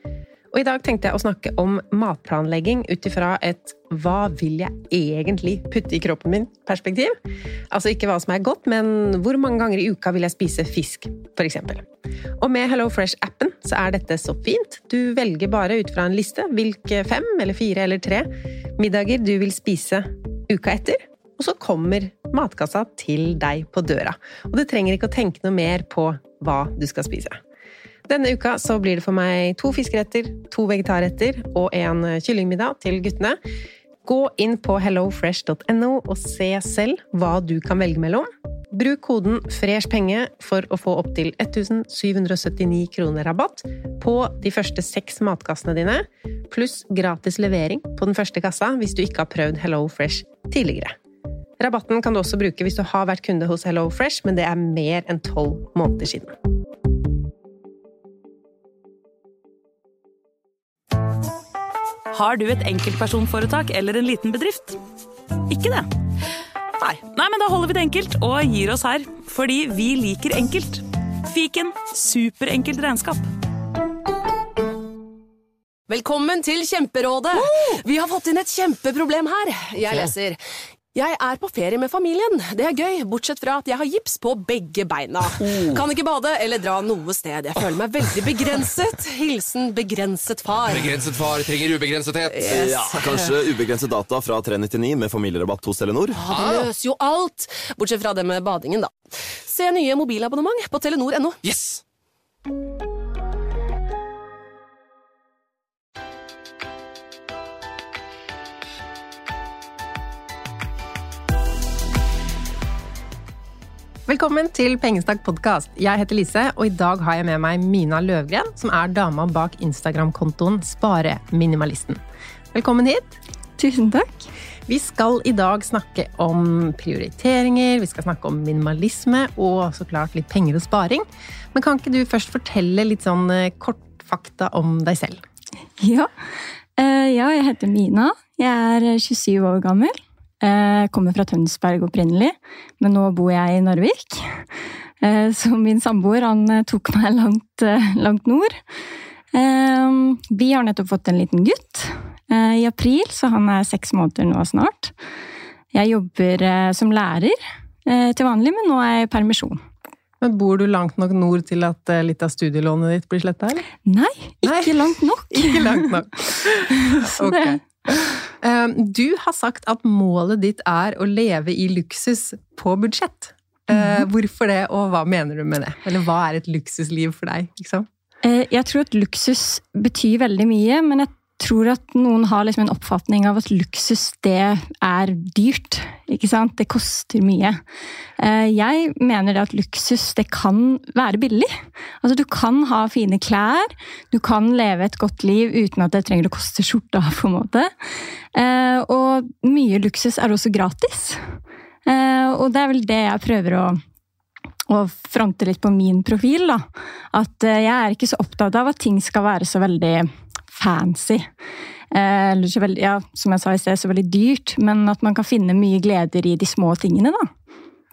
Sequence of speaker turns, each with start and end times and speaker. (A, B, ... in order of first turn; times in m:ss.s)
0:00.5-0:07.2 A
0:07.7-0:11.9 A
0:12.4-0:27.4 A
0:28.1-0:33.4 A
0:34.0-0:51.0 A
0:51.6-0:56.4 A
1:02.1-1:04.8 B
1:05.5-1:05.9 B
1:06.8-1:13.3 B
1:15.9-1:20.4 C
1:20.9-1:31.0 C
1:30.6-1:32.5 D
1:32.3-1:33.1 C
1:32.4-1:36.2 E
1:36.2-1:38.9 C
1:36.3-1:36.7 D
1:39.4-1:41.4 C
1:41.4-1:41.8 D
1:54.1-2:02.0 A
2:02.5-2:03.2 A
2:03.6-2:04.3 F
2:04.7-2:15.2 A
2:15.8-2:16.1 F
2:16.8-2:24.4 F
2:25.0-2:28.6 F
2:29.3-2:34.9 F
2:35.7-2:39.6 F
2:40.2-2:43.7 A
2:43.9-2:47.6 F
2:44.4-2:47.6 A
2:48.4-2:57.9 A
2:58.2-3:07.6 F
3:08.2-3:17.7 F
3:18.3-3:23.8 F
3:24.7-3:31.3 F
3:31.9-3:37.3 F